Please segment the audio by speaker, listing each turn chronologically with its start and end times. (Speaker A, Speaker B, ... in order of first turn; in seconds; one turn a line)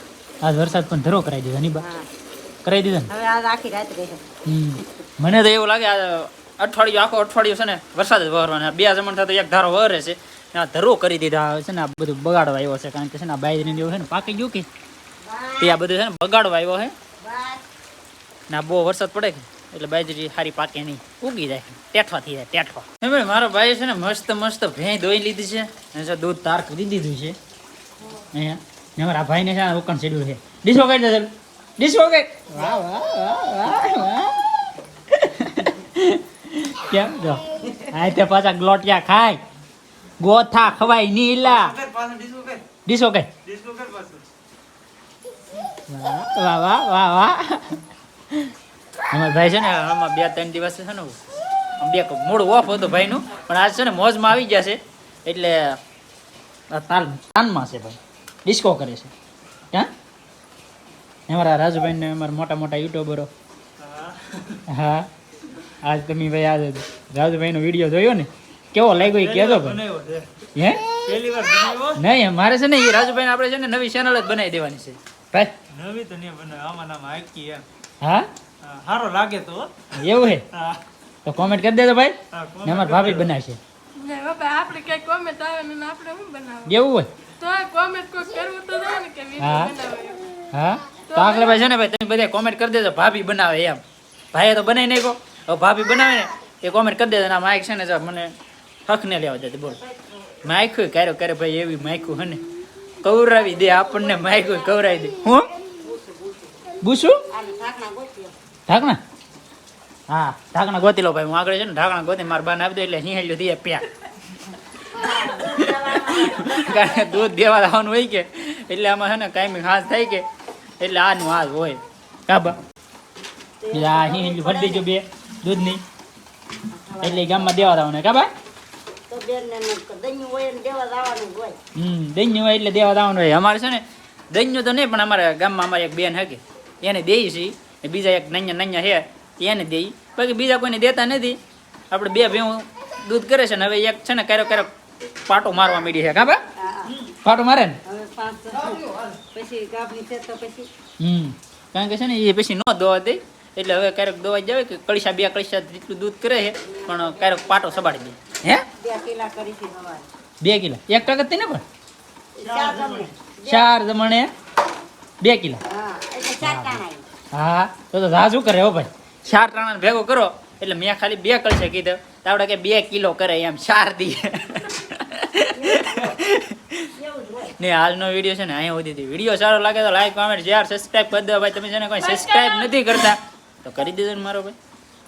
Speaker A: 0.4-1.8
Speaker B: 1.8-2.1
Speaker A: 2.6-3.1
Speaker B: 3.1-4.2
Speaker A: 4.5-14.7
Speaker B: 15.2-15.8
Speaker A: 15.6-16.9
Speaker B: 17.2-17.6
Speaker A: 18.5-27.4
Speaker A: 28.3-34.4
Speaker A: 35.1-39.4
Speaker A: 40.2-41.8
Speaker C: 41.4-42.6
Speaker A: 42.8-43.3
Speaker C: 43.4-44.2
Speaker A: 45.9-48.5
Speaker A: 49.1-51.2
Speaker A: 51.8-55.8
Speaker A: 56.7-59.1
Speaker A: 61.3-63.3
Speaker C: 63.8-64.6
Speaker A: 64.7-65.1
Speaker A: 65.7-69.8
Speaker C: 69.0-72.0
Speaker A: 70.5-70.9
Speaker A: 72.0-75.5
Speaker C: 75.7-77.6
Speaker A: 78.0-78.3
Speaker C: 78.6-80.8
Speaker A: 79.9-80.4
Speaker A: 81.2-83.6
Speaker C: 82.3-83.3
Speaker D: 84.0-86.7
Speaker A: 86.7-87.1
Speaker D: 87.4-90.3
Speaker A: 89.4-89.7
Speaker A: 90.5-93.8
Speaker D: 91.1-91.6
Speaker A: 94.3-98.3
Speaker A: 98.8-99.8
Speaker B: 99.7-100.2
Speaker A: 100.4-102.4
Speaker A: 103.0-105.5
Speaker B: 105.5-106.6
Speaker A: 106.8-107.2
Speaker B: 107.3-108.3
Speaker A: 108.7-109.0
Speaker A: 110.1-113.9
Speaker B: 114.9-117.3
Speaker A: 115.4-120.2
Speaker A: 120.8-122.6
Speaker B: 123.6-124.8
Speaker A: 123.7-125.8
Speaker B: 126.7-127.8
Speaker A: 127.0-128.3
Speaker B: 129.1-131.6
Speaker A: 131.7-141.4
Speaker A: 141.9-144.7
Speaker A: 145.3-146.4
Speaker B: 146.6-147.0
Speaker A: 147.1-147.8
Speaker B: 147.8-150.7
Speaker C: 148.7-149.1
Speaker A: 151.0-158.7
Speaker B: 156.6-158.0
Speaker B: 158.7-160.1
Speaker A: 160.4-161.6
Speaker B: 162.3-163.7
Speaker C: 162.4-163.1
Speaker A: 163.4-164.3
Speaker A: 165.2-165.6
Speaker B: 165.7-167.1
Speaker A: 166.4-176.9
Speaker B: 175.6-176.2
Speaker B: 176.9-177.5
Speaker A: 177.6-184.6
Speaker D: 182.0-182.8